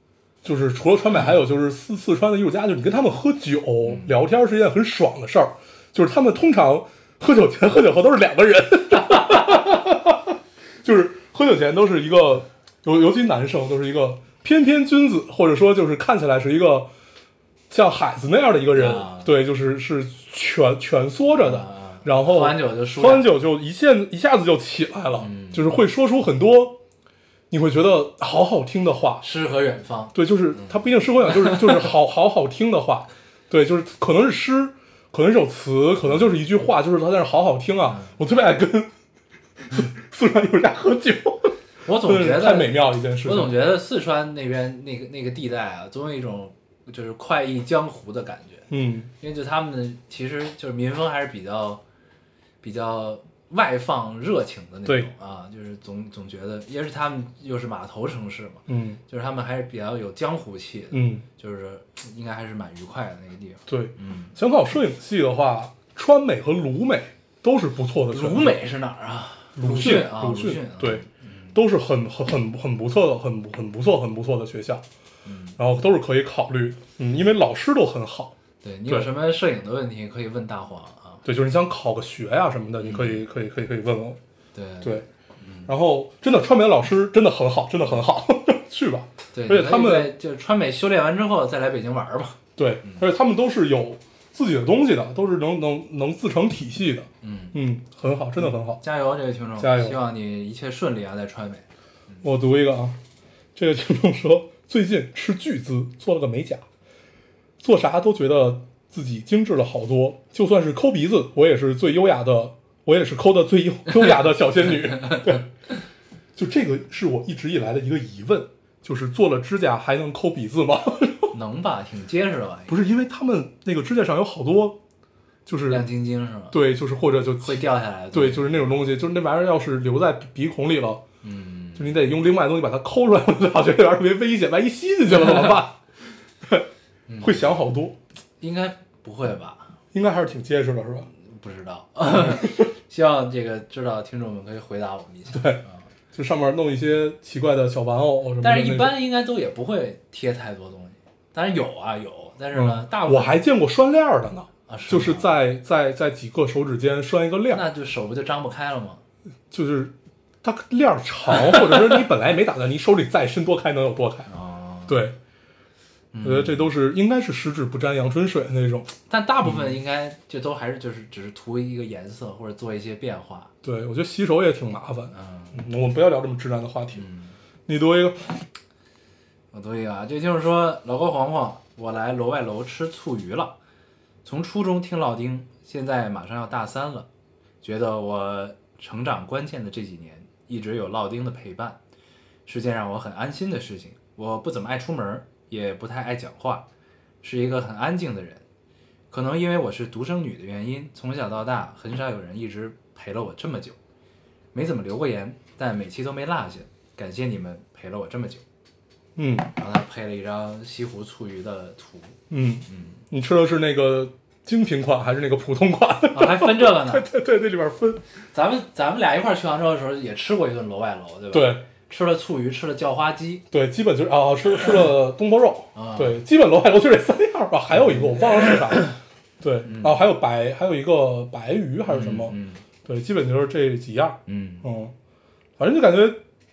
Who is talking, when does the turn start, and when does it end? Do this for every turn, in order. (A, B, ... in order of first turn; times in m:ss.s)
0:00.4-0:16.9 A
0:03.8-0:04.1 B
0:17.7-0:26.8 A
0:18.8-0:19.3 B
0:21.3-0:23.3 B
0:25.2-0:25.7 B
0:27.5-0:29.2 A
0:29.2-0:31.9 B
0:30.1-0:38.9 A
0:37.9-0:38.2 B
0:39.7-0:43.6 A
0:41.8-0:48.7 B
0:48.7-0:49.1 A
0:49.2-0:51.8 B
0:52.6-1:04.4 B
0:58.7-0:59.0 A
1:00.9-1:01.2 A
1:03.7-1:08.6 A
1:08.1-1:11.6 B
1:09.6-1:14.8 A
1:15.2-1:15.6 B
1:15.6-1:18.4 A
1:18.6-1:21.2 B
1:21.2-1:24.2 A
1:22.8-1:23.2 B
1:24.5-1:25.7 B
1:25.7-1:30.1 A
1:29.3-1:33.0 B
1:32.6-1:38.8 A
1:37.2-1:37.6 B
1:38.4-1:42.2 B
1:39.6-1:40.0 A
1:42.2-1:43.0 A
1:43.6-1:46.6 A
1:47.6-1:55.5 A
1:56.4-2:01.3 A
2:01.3-2:02.8 B
2:02.7-2:04.8 A
2:05.5-2:05.8 A
2:05.7-2:06.6 B
2:06.5-2:11.0 A
2:07.4-2:08.6 B
2:11.2-2:12.0 B
2:11.8-2:15.8 A
2:16.4-2:16.7 A
2:17.1-2:17.6 B
2:17.2-2:18.0 A
2:18.4-2:19.8 B
2:19.9-2:21.1 A
2:21.1-2:25.8 B
2:22.2-2:22.7 A
2:25.3-2:29.0 A
2:28.4-2:33.4 B
2:32.5-2:37.6 A
2:34.7-2:35.3 B
2:37.5-2:39.0 B
2:39.5-2:44.3 A
2:44.3-2:45.0 B
2:44.9-2:45.2 A
2:46.1-2:46.7 B
2:46.2-2:49.8 A
2:49.1-2:53.5 B
2:53.6-2:57.0 A
2:55.1-2:55.6 B
2:57.0-2:57.4 B
2:57.7-2:58.5 A
2:59.5-3:03.6 B
3:04.2-3:07.1 B
3:07.6-3:11.8 B
3:12.5-3:16.7 B
3:17.2-3:18.4 B
3:19.1-3:23.8 B
3:24.5-3:28.4 B
3:29.2-3:29.5 A
3:29.6-3:33.0 B
3:32.3-3:38.0 A
3:36.1-3:37.1 B
3:38.3-3:43.4 B
3:41.3-3:41.6 A
3:43.5-3:54.9 A
3:45.8-3:46.2 B
3:47.7-3:48.9 B
3:49.6-3:50.0 B
3:51.9-3:52.6 B
3:54.3-3:54.6 B
3:55.6-3:56.2 A